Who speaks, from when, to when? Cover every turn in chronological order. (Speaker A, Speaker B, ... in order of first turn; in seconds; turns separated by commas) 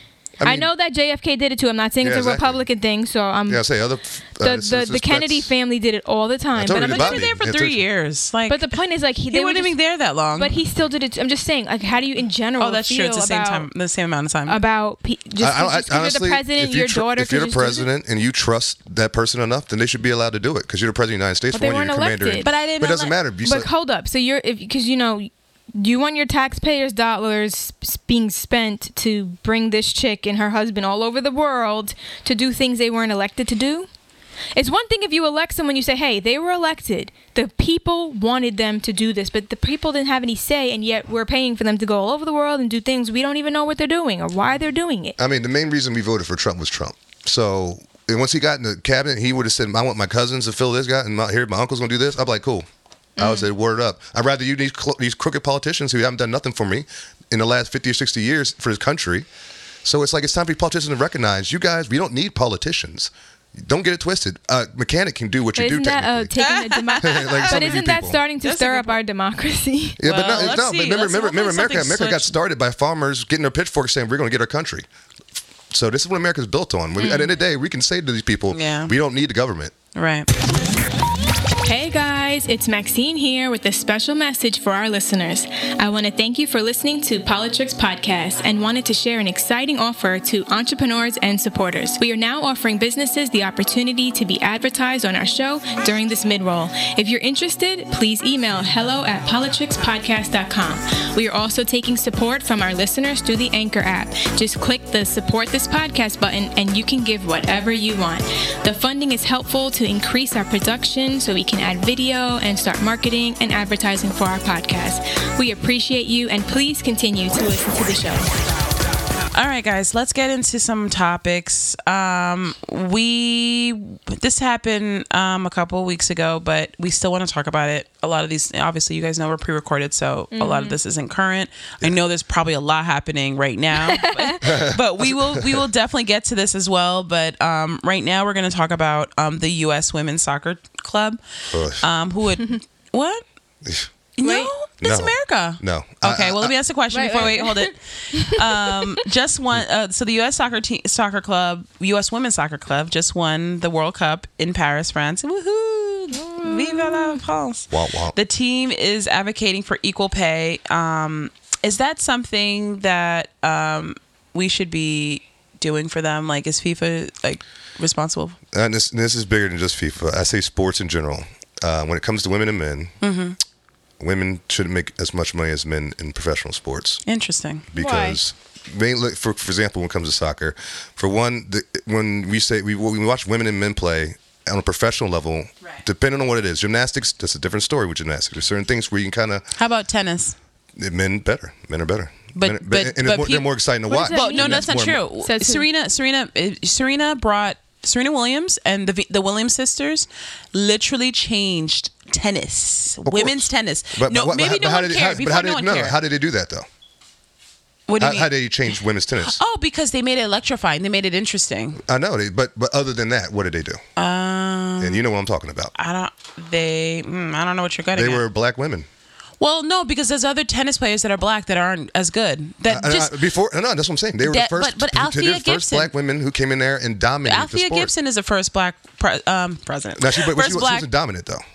Speaker A: 0.4-0.7, Speaker B: 0.4-3.6, Speaker A: 2.0-2.6, Speaker A: 3.5-5.5, Speaker B: 4.4-7.3, Speaker A: 6.5-7.8, Speaker C: 6.7-8.8, Speaker B: 8.5-9.8, Speaker C: 9.3-10.6, Speaker B: 10.3-13.7, Speaker C: 12.6-14.6, Speaker B: 14.5-17.9, Speaker A: 15.4-23.7, Speaker B: 21.5-22.5, Speaker C: 22.4-23.1, Speaker B: 23.4-33.9, Speaker B: 34.5-45.2, Speaker A: 45.2-52.6, Speaker A: 53.2-59.2, Speaker A: 59.8-66.3, Speaker B: 65.5-70.0, Speaker C: 66.4-67.8, Speaker A: 67.0-68.2, Speaker C: 68.4-69.0, Speaker A: 70.0-74.9, Speaker C: 70.0-72.3, Speaker A: 75.7-79.7, Speaker C: 77.0-77.3, Speaker C: 78.5-78.9, Speaker C: 79.9-80.3, Speaker B: 81.6-118.3, Speaker C: 119.3-141.2, Speaker B: 130.3-130.8, Speaker B: 133.9-134.4, Speaker A: 134.4-135.7, Speaker A: 141.5-141.8, Speaker C: 141.8-143.2, Speaker A: 143.6-143.9, Speaker C: 144.2-168.4, Speaker B: 144.2-144.5, Speaker A: 144.8-146.5, Speaker B: 146.9-148.9, Speaker B: 156.2-157.2, Speaker A: 157.7-158.2, Speaker A: 168.5-172.9, Speaker C: 173.0-173.4, Speaker A: 174.0-177.0, Speaker C: 177.1-177.7, Speaker A: 177.7-189.4, Speaker B: 177.8-178.2, Speaker C: 189.6-190.3, Speaker A: 190.8-195.0, Speaker C: 192.3-193.5, Speaker B: 193.9-195.6, Speaker C: 194.1-205.9, Speaker A: 203.1-206.7, Speaker C: 207.9-211.8, Speaker A: 208.0-209.4, Speaker A: 211.8-213.8, Speaker C: 214.0-215.0, Speaker A: 214.8-215.7, Speaker C: 215.8-218.2, Speaker A: 217.9-218.9, Speaker C: 219.4-223.2, Speaker A: 222.7-227.9, Speaker C: 224.2-225.9, Speaker C: 227.2-230.9, Speaker A: 229.9-231.4